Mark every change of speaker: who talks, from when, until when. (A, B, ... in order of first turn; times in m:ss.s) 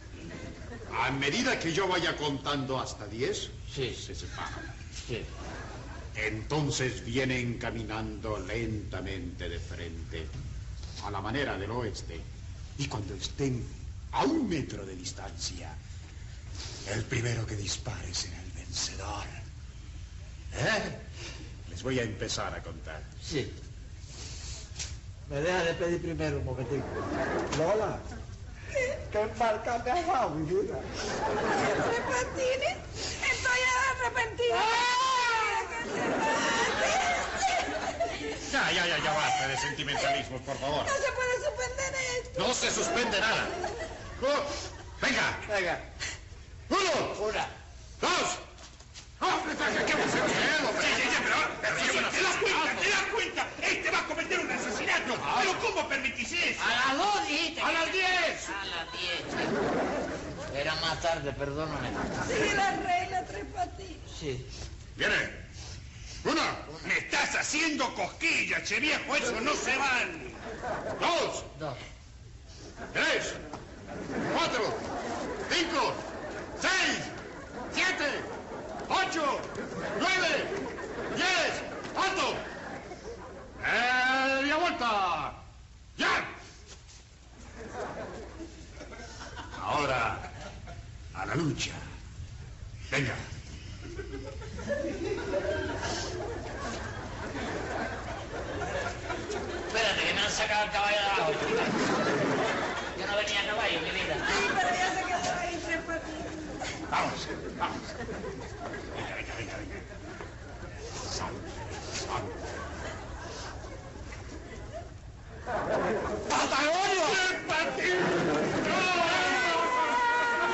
0:00.9-0:04.7 A
0:03.7-0:04.0 B
0:06.1-0:10.3 A
0:11.0-0:12.2 A
0:12.8-0:15.8 A
0:16.8-0:19.4 A
0:20.5-0:21.0 A
0:21.6-0:23.1 A
0:23.2-0:23.5 B
0:25.3-0:28.0 C
0:29.0-0:30.9 C
0:31.4-0:38.2 D
0:34.5-0:35.4 C
0:38.3-0:41.0 A
0:40.8-0:42.6 D
0:42.3-0:43.6 A
0:44.2-0:45.5 A
0:46.7-0:47.3 A
0:47.2-0:47.5 B
0:48.0-0:48.4 A
0:49.2-0:52.9 A
0:50.7-0:56.7 E
0:55.1-0:55.6 A
0:56.6-0:59.6 B
0:57.6-0:58.5 A
1:00.5-1:02.2 B
1:02.2-1:04.0 D
1:04.1-1:04.5 B
1:05.0-1:05.4 A
1:06.2-1:06.7 A
1:06.8-1:10.4 E
1:11.0-1:11.5 A
1:12.9-1:13.4 A
1:14.2-1:14.8 A
1:15.5-1:16.0 A
1:16.6-1:17.1 A
1:17.7-1:18.3 A
1:18.9-1:20.6 A
1:21.1-1:22.4 A
1:23.6-1:25.4 A
1:26.0-1:26.3 A
1:29.5-1:30.3 A
1:31.1-1:31.9 A
1:32.9-1:33.2 A
1:39.7-1:41.9 B
1:42.9-1:44.2 B
1:44.2-1:46.4 D
1:46.9-1:47.7 A
1:48.9-1:49.8 A
1:51.0-1:52.5 A
1:56.3-1:57.6 A
1:58.5-2:00.0 A